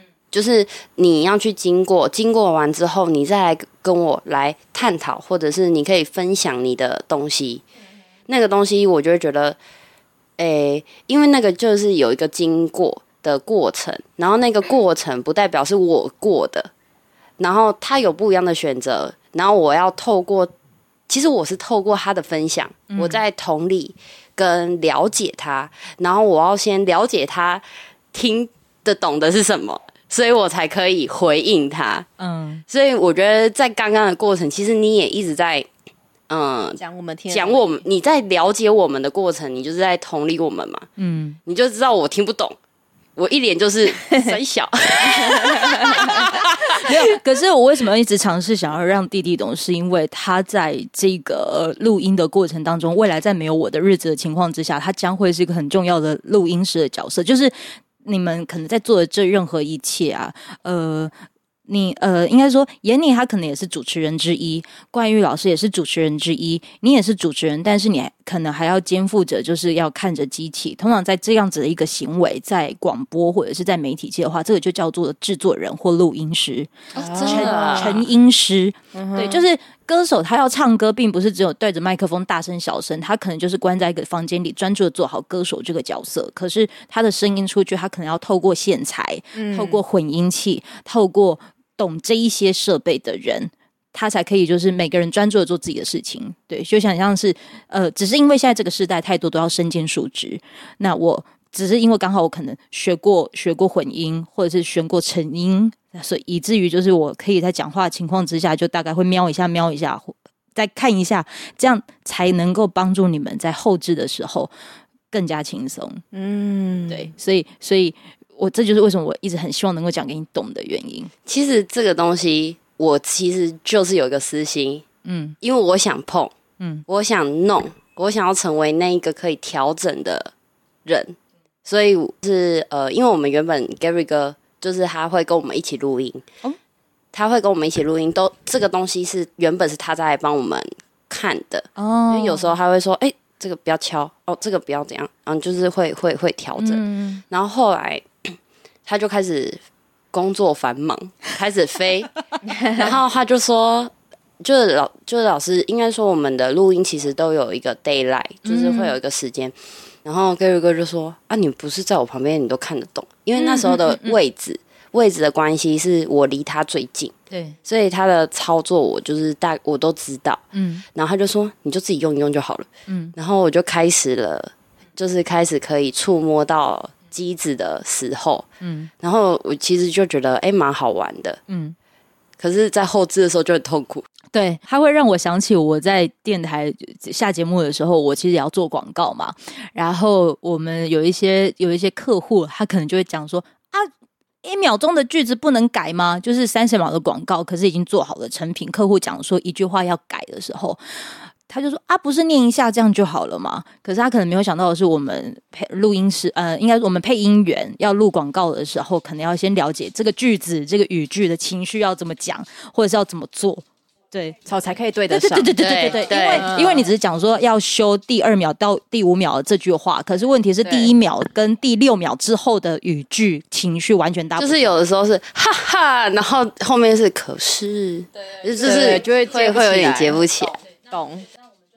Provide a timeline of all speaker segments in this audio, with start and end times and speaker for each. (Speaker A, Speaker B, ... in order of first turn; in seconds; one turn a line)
Speaker A: 0.3-7.6
Speaker A: 8.3-9.6
Speaker A: 10.4-16.7
Speaker A: 17.4-20.5
Speaker A: 21.1-32.1
Speaker B: 22.9-23.2
Speaker B: 32.2-32.6
Speaker A: 32.7-35.7
Speaker A: 36.3-40.9
Speaker C: 36.8-37.7
Speaker B: 41.0-41.4
Speaker A: 41.4-42.6
Speaker A: 43.2-46.9
Speaker B: 46.7-61.1
Speaker B: 61.7-76.7
Speaker A: 76.9-78.0
Speaker C: 77.0-77.9
Speaker B: 77.2-114.5
Speaker C: 78.9-79.4
Speaker C: 89.3-89.8
Speaker B: 115.1-116.0
Speaker C: 116.1-117.1
Speaker B: 116.9-121.1
Speaker A: 121.2-124.8
Speaker B: 125.0-125.3
Speaker A: 125.4-126.3
Speaker A: 126.9-130.3
Speaker A: 130.8-136.2
Speaker A: 137.1-149.6
Speaker B: 141.8-142.5
Speaker B: 146.6-147.2
Speaker A: 150.1-152.1
Speaker A: 152.7-170.4
Speaker B: 158.4-158.9
Speaker B: 163.3-164.2
Speaker B: 167.3-167.6
Speaker B: 170.5-170.8
Speaker A: 170.9-178.5
Speaker B: 172.9-173.1
Speaker B: 178.6-178.9
Speaker A: 179.0-181.4
Speaker B: 181.5-181.8
Speaker A: 182.4-184.1
Speaker B: 184.3-193.9
Speaker B: 194.4-200.8
Speaker B: 201.5-214.4
Speaker C: 214.4-215.6
Speaker B: 215.1-224.6
Speaker A: 215.6-216.5
Speaker C: 216.1-216.8
Speaker C: 220.7-220.9
Speaker A: 224.4-230.6
Speaker C: 228.6-230.2
Speaker C: 230.9-231.2